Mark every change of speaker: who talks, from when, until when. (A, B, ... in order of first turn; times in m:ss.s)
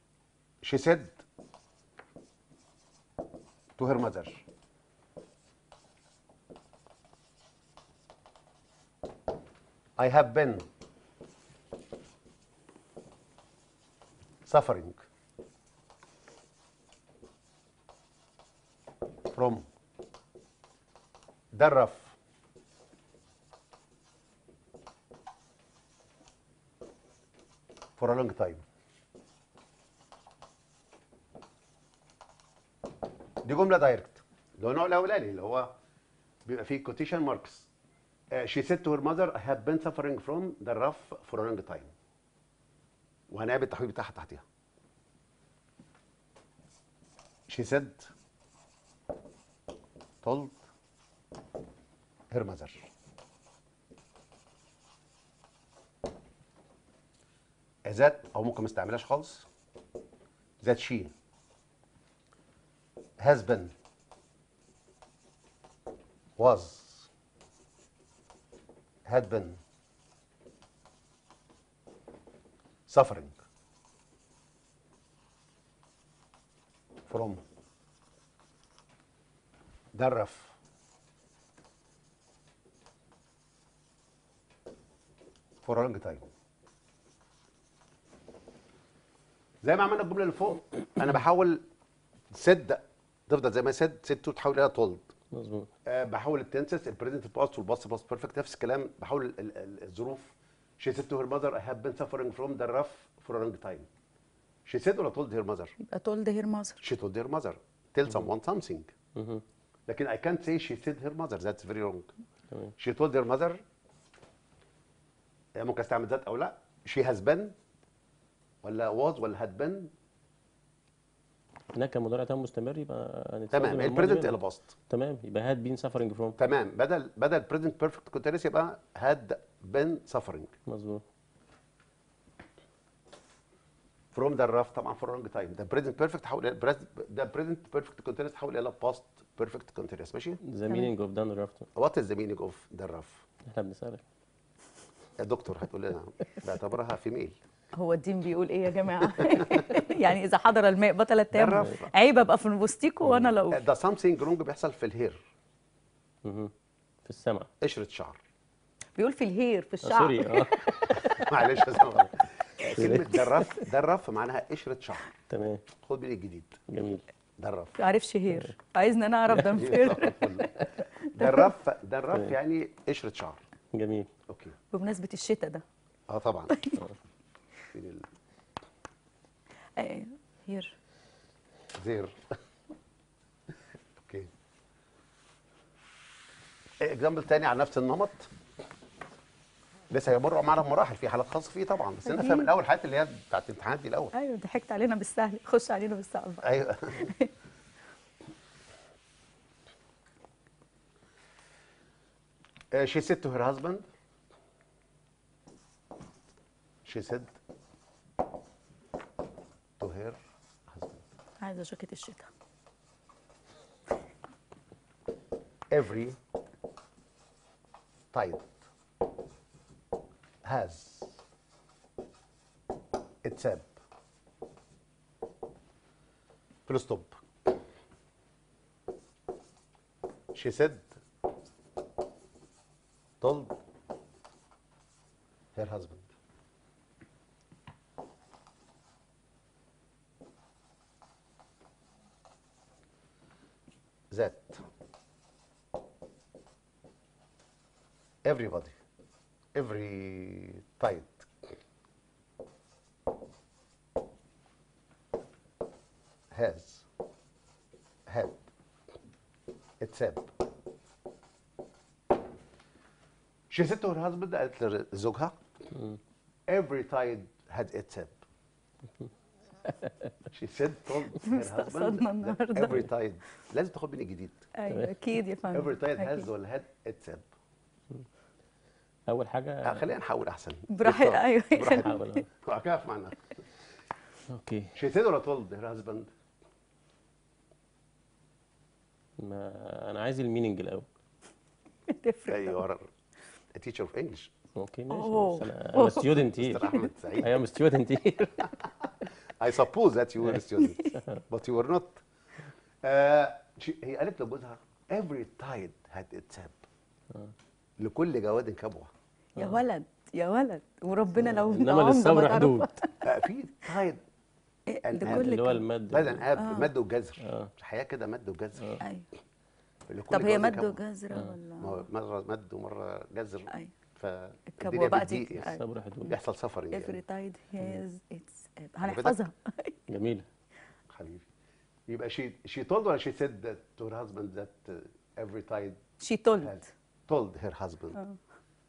0:00.6-0:01.2 A
0:03.8-0:04.4 A
0:10.0-0:10.7 A
0:14.4-0:15.0 A
0:19.3-0:19.7 A
0:21.5-0:22.2 A
0:28.0-0:28.6 A
0:33.4-0:35.8 A
0:36.5-0:37.7 A
0:38.3-0:41.9 A
0:43.3-0:44.4 A
0:47.5-0:48.1 A
0:50.2-0:50.6 A
0:52.3-0:52.9 A
0:57.9-0:59.5 A
1:00.6-1:01.1 A
1:03.2-1:03.7 A
1:06.4-1:07.1 A
1:09.1-1:09.6 A
1:12.9-1:13.4 A
1:17.1-1:17.4 A
1:19.9-1:20.6 A
1:25.6-1:26.3 A
1:29.6-1:31.6 A
1:32.3-1:35.1 A
1:35.3-1:35.7 B
1:35.9-1:43.9 A
1:44.7-1:45.8 A
1:45.8-1:46.8 C
1:46.8-1:48.9 A
1:49.2-1:49.4 B
1:49.9-1:52.1 A
1:52.8-1:53.6 A
1:55.6-1:57.6 A
1:58.6-1:59.9 A
2:01.7-2:04.4 B
2:03.5-2:04.7 A
2:04.9-2:06.4 B
2:06.4-2:10.5 A
2:10.7-2:11.0 B
2:14.1-2:20.4 A
2:20.4-2:21.7 B
2:21.8-2:23.2 A
2:23.5-2:24.0 B
2:25.2-2:27.4 A
2:27.7-2:33.7 C
2:29.2-2:29.4 A
2:31.3-2:31.9 A
2:33.5-2:35.2 A
2:36.2-2:36.5 B
2:37.0-2:37.5 B
2:37.6-2:38.2 A
2:39.0-2:41.2 C
2:39.8-2:41.4 B
2:41.0-2:45.1 A
2:42.6-2:43.7 B
2:45.3-2:45.6 B
2:45.8-2:46.6 A
2:46.7-2:47.0 B
2:47.4-2:47.8 A
2:47.8-2:51.5 C
2:49.3-2:50.7 B
2:49.5-2:50.5 A
2:51.1-2:53.4 A
2:53.7-2:54.1 B
2:54.3-2:54.6 A
2:54.7-2:55.6 C
2:56.1-2:56.5 A
2:56.5-2:56.8 C
2:57.7-2:58.1 A
2:59.8-3:00.8 C
3:01.8-3:02.4 A
3:04.0-3:04.3 A
3:06.8-3:08.3 A
3:09.9-3:14.1 A
3:12.0-3:12.5 C
3:14.1-3:17.3 C
3:16.4-3:17.1 A
3:22.7-3:23.8 A
3:26.8-3:27.3 A
3:29.8-3:31.0 A
3:31.4-3:32.3 C
3:35.7-3:36.2 A
3:38.1-3:38.5 A
3:40.4-3:41.2 A
3:43.2-3:43.7 A
3:46.7-3:47.2 A
3:50.3-3:51.0 A
3:53.2-3:53.6 A
3:55.6-3:56.1 A
4:04.1-4:04.6 A
4:08.2-4:08.8 A
4:09.5-4:11.3 A
4:16.3-4:16.9 A
4:18.1-4:18.4 A
4:19.8-4:20.3 A
4:23.5-4:25.4 A
4:25.7-4:26.0 B
4:26.5-4:28.2 A
4:29.6-4:30.1 B
4:30.3-4:34.5 A
4:31.2-4:32.8 C
4:34.6-4:36.3 C
4:35.5-4:37.3 A
4:39.1-4:39.9 B
4:39.6-4:43.2 A
4:40.7-4:42.2 C
4:41.8-4:42.2 B
4:44.3-4:44.8 B
4:44.8-4:46.1 A
4:49.2-4:50.9 B
4:51.9-4:52.6 C
4:52.3-4:52.9 A
4:53.5-4:54.3 A
4:54.6-4:58.6 B
4:54.9-4:56.9 C
4:56.3-4:57.4 A
4:59.4-5:02.0 A
5:00.2-5:01.2 B
5:00.6-5:00.9 C
5:02.8-5:06.6 A
5:07.8-5:08.9 A
5:09.4-5:13.1 C
5:11.2-5:12.8 B
5:13.0-5:14.0 A
5:14.7-5:15.7 C
5:14.8-5:15.4 A
5:15.0-5:16.2 B
5:15.9-5:18.8 A
5:16.4-5:16.7 C
5:17.2-5:17.5 B
5:18.8-5:19.1 C
5:19.9-5:20.8 A
5:20.1-5:21.8 C
5:21.6-5:25.5 A
5:24.5-5:26.2 C
5:25.4-5:26.2 B
5:26.1-5:27.0 A
5:26.7-5:29.8 C
5:28.8-5:29.2 A
5:29.9-5:30.3 B
5:30.9-5:31.3 A
5:31.9-5:35.8 A
5:36.0-5:36.7 C
5:36.4-5:38.0 A